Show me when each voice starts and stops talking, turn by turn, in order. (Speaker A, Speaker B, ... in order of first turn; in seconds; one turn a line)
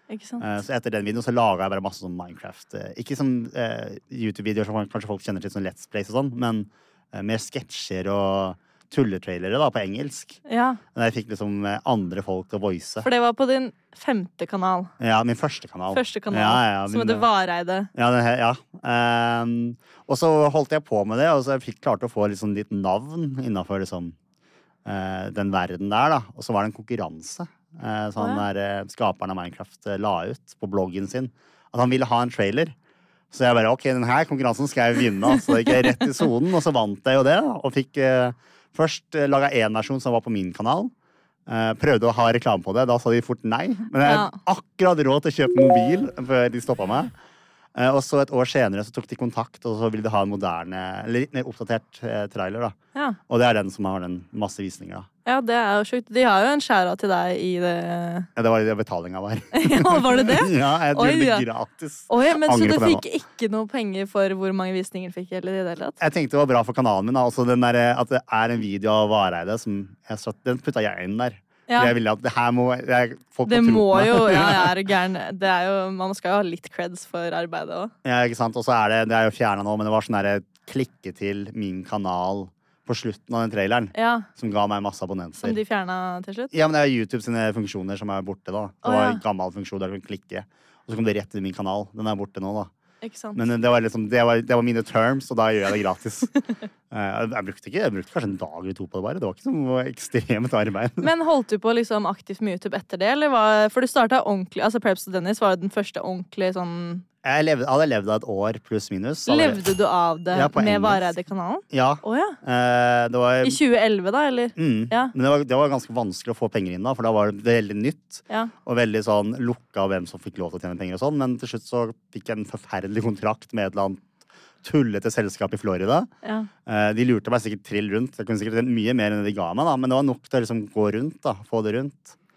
Speaker A: 0.1-0.5
Speaker B: 0.4-10.4
Speaker A: 10.4-10.8
Speaker B: 10.9-13.1
Speaker A: 13.0-14.9
Speaker B: 15.0-17.2
Speaker A: 15.9-17.9
Speaker B: 17.9-24.1
Speaker B: 24.8-32.7
Speaker A: 28.2-28.4
Speaker B: 33.3-40.9
Speaker B: 41.5-47.1
Speaker A: 44.0-44.4
Speaker B: 47.7-52.8
Speaker B: 53.3-55.1
Speaker A: 55.2-58.3
Speaker B: 58.4-63.0
Speaker A: 59.5-61.5
Speaker A: 62.1-66.0
Speaker B: 66.0-74.8
Speaker A: 71.7-71.9
Speaker A: 73.5-77.9
Speaker B: 78.0-85.6
Speaker A: 83.9-84.3
Speaker A: 85.4-86.5
Speaker B: 86.5-92.7
Speaker A: 88.8-89.2
Speaker A: 93.0-93.4
Speaker B: 93.3-96.3
Speaker B: 96.9-101.1
Speaker A: 101.0-107.0
Speaker B: 107.2-109.6
Speaker A: 109.3-112.4
Speaker B: 110.3-111.1
Speaker B: 111.7-113.6
Speaker A: 113.4-115.1
Speaker B: 114.5-124.0
Speaker B: 124.6-126.1
Speaker A: 126.2-126.5
Speaker B: 126.7-132.2